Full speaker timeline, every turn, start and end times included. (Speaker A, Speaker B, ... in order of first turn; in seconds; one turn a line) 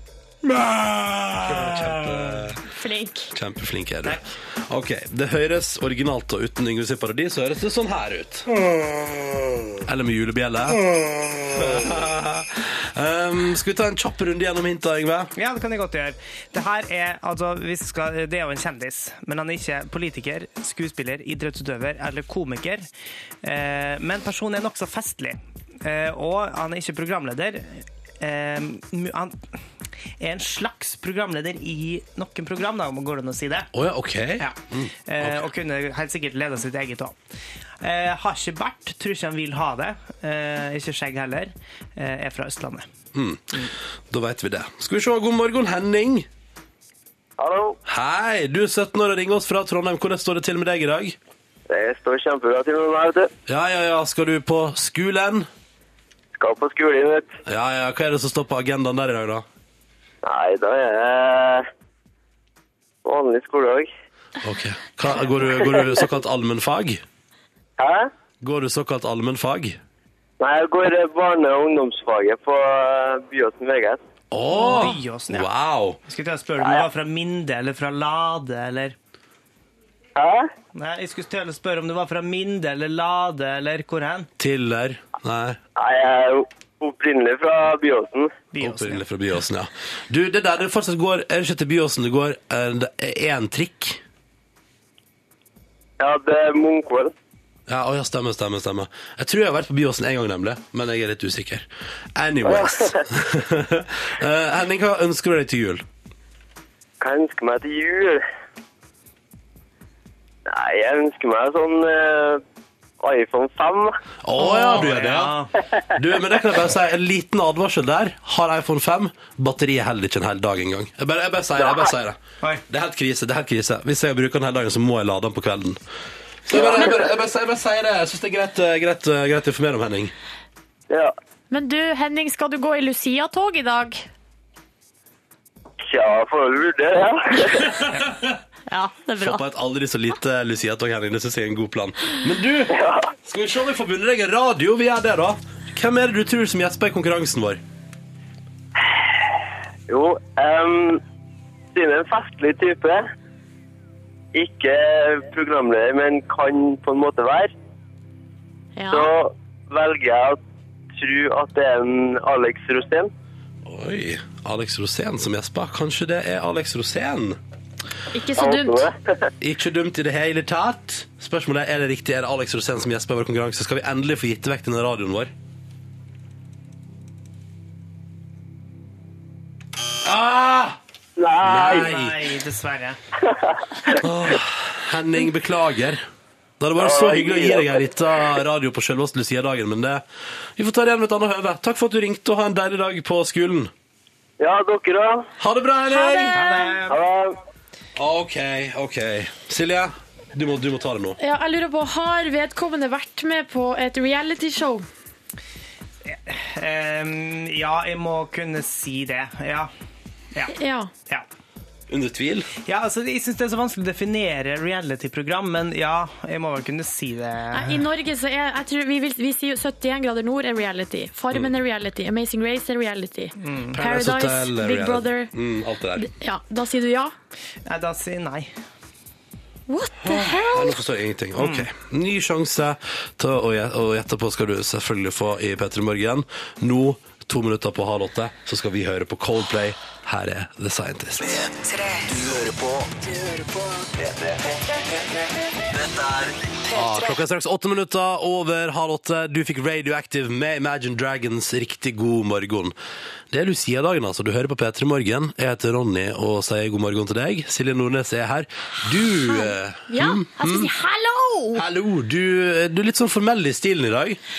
Speaker A: 0.4-2.6
Speaker B: 2.7-3.3
Speaker A: 3.3-8.5
Speaker A: 9.8-10.8
Speaker A: 11.5-15.3
Speaker C: 15.4-22.9
Speaker C: 23.4-29.6
Speaker C: 30.2-33.7
Speaker A: 33.7-35.5
Speaker C: 34.4-37.1
Speaker C: 37.8-42.9
Speaker A: 43.1-46.3
Speaker D: 47.4-47.8
Speaker A: 47.9-51.2
Speaker D: 51.7-53.3
Speaker A: 53.5-55.5
Speaker D: 56.4-57.3
Speaker A: 57.5-59.5
Speaker D: 60.2-61.6
Speaker D: 63.0-63.9
Speaker A: 64.4-67.0
Speaker D: 67.8-68.1
Speaker A: 68.4-69.8
Speaker D: 70.4-74.0
Speaker A: 74.3-76.0
Speaker C: 74.5-75.5
Speaker C: 76.1-79.0
Speaker D: 76.6-76.8
Speaker D: 80.2-80.5
Speaker C: 80.7-84.3
Speaker A: 84.4-85.6
Speaker D: 85.8-88.3
Speaker C: 88.5-89.0
Speaker A: 88.6-94.0
Speaker D: 96.0-97.1
Speaker A: 97.7-105.8
Speaker D: 102.4-103.0
Speaker D: 107.0-108.2
Speaker D: 110.5-112.4
Speaker D: 113.0-114.0
Speaker A: 114.2-115.4
Speaker C: 114.4-115.5
Speaker A: 115.9-125.8
Speaker D: 121.6-121.9
Speaker A: 126.4-130.1
Speaker D: 126.5-127.0
Speaker B: 131.5-134.1
Speaker D: 135.9-137.8
Speaker A: 137.7-138.4
Speaker B: 138.7-139.4
Speaker A: 139.2-147.6
Speaker D: 142.7-143.1
Speaker D: 148.8-151.0
Speaker D: 151.7-153.0
Speaker D: 154.3-157.5
Speaker B: 158.8-159.1
Speaker D: 158.9-160.4
Speaker D: 160.9-163.1
Speaker A: 163.6-167.4
Speaker B: 168.1-168.8
Speaker D: 168.4-169.2
Speaker A: 169.4-175.3
Speaker A: 180.0-180.8
Speaker D: 181.2-181.9
Speaker A: 181.4-182.2
Speaker C: 181.5-183.0
Speaker D: 183.3-184.0
Speaker A: 183.9-186.0
Speaker A: 186.6-190.0
Speaker D: 186.8-187.8
Speaker A: 190.6-193.7
Speaker D: 194.4-195.3
Speaker A: 195.4-196.4
Speaker B: 195.9-196.8
Speaker C: 196.3-197.0
Speaker D: 196.9-197.4
Speaker A: 197.9-201.2
Speaker B: 201.2-204.9
Speaker C: 206.1-209.7
Speaker B: 210.5-210.9
Speaker A: 211.9-212.5
Speaker C: 212.6-217.8
Speaker B: 217.5-225.3
Speaker C: 223.4-223.8
Speaker A: 223.7-226.1
Speaker B: 226.0-227.1
Speaker C: 227.6-228.5
Speaker B: 229.7-230.8
Speaker A: 230.0-242.9
Speaker C: 231.4-231.7
Speaker A: 245.8-252.7
Speaker A: 253.3-260.7
Speaker B: 259.3-261.6
Speaker A: 261.5-264.2